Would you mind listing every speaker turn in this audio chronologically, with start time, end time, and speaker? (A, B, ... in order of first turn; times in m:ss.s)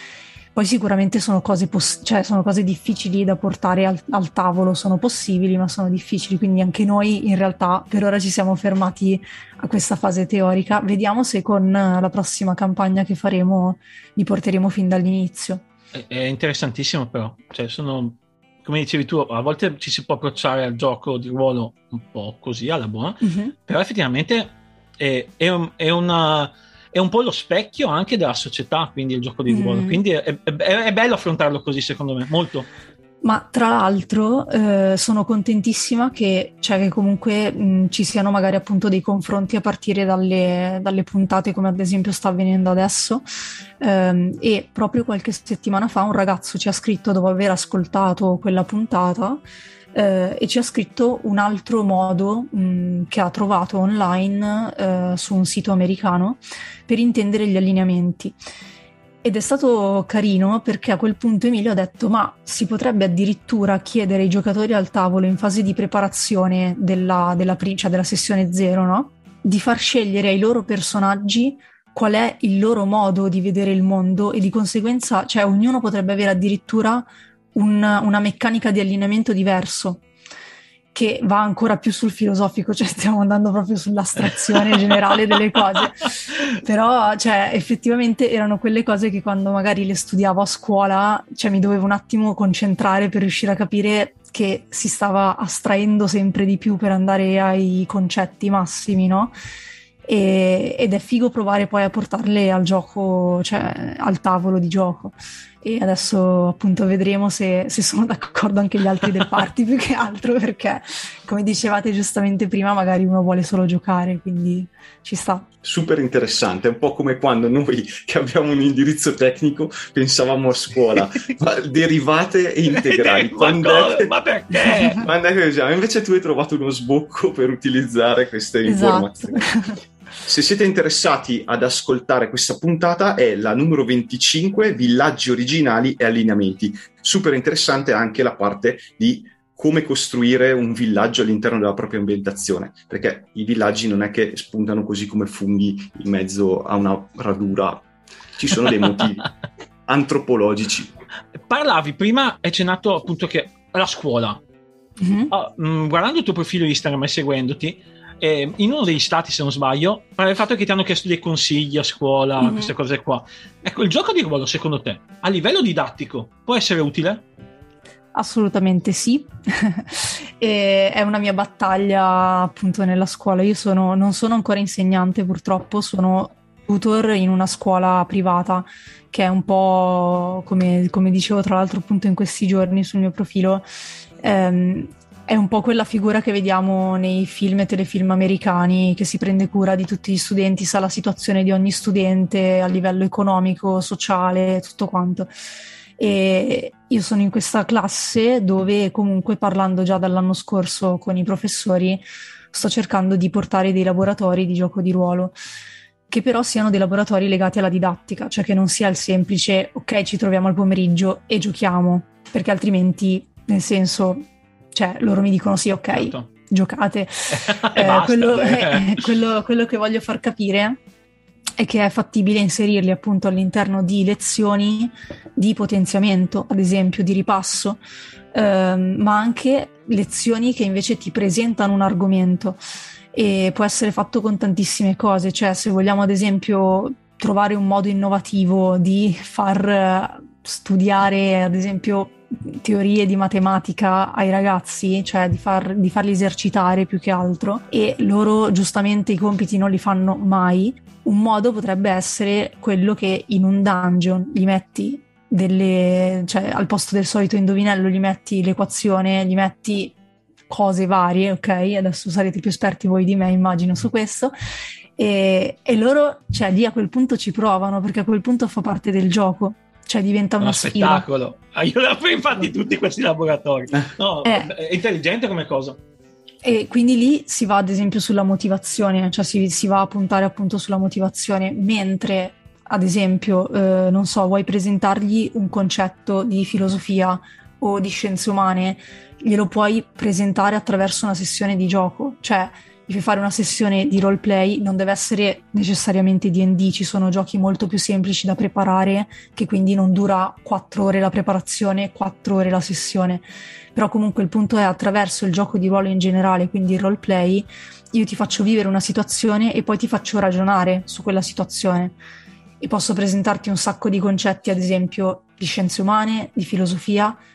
0:00.5-0:15.6 A
0:15.9-0:32.7 B
0:23.2-0:23.5 A
0:29.5-0:30.0 A
0:33.2-0:43.2 A
0:43.8-0:58.4 A
0:59.2-1:20.0 A
1:20.9-1:39.3 A
1:40.0-1:55.5 A
1:55.6-2:04.1 C
2:02.7-2:05.0 B
2:04.6-2:05.0 A
2:04.9-2:09.5 C
2:08.6-2:09.8 A
2:10.2-2:27.8 C
2:28.4-2:29.3 C
2:29.9-2:30.9 C
2:31.4-2:34.4 B
2:35.0-2:35.3 A
2:35.3-2:47.2 B
2:42.4-2:42.7 A
2:48.1-3:03.6 A
3:04.2-3:15.3 A
3:16.0-3:25.3 A
3:26.1-3:40.8 A
3:35.9-3:36.3 B
3:37.3-3:39.0 B
3:41.6-3:47.8 A
3:48.3-3:52.6 A
3:53.1-4:19.9 A
4:20.5-4:24.3 A
4:25.0-4:31.0 A
4:30.4-4:35.8 B
4:34.2-4:34.5 A
4:36.4-5:12.0 A
5:12.6-5:17.2 A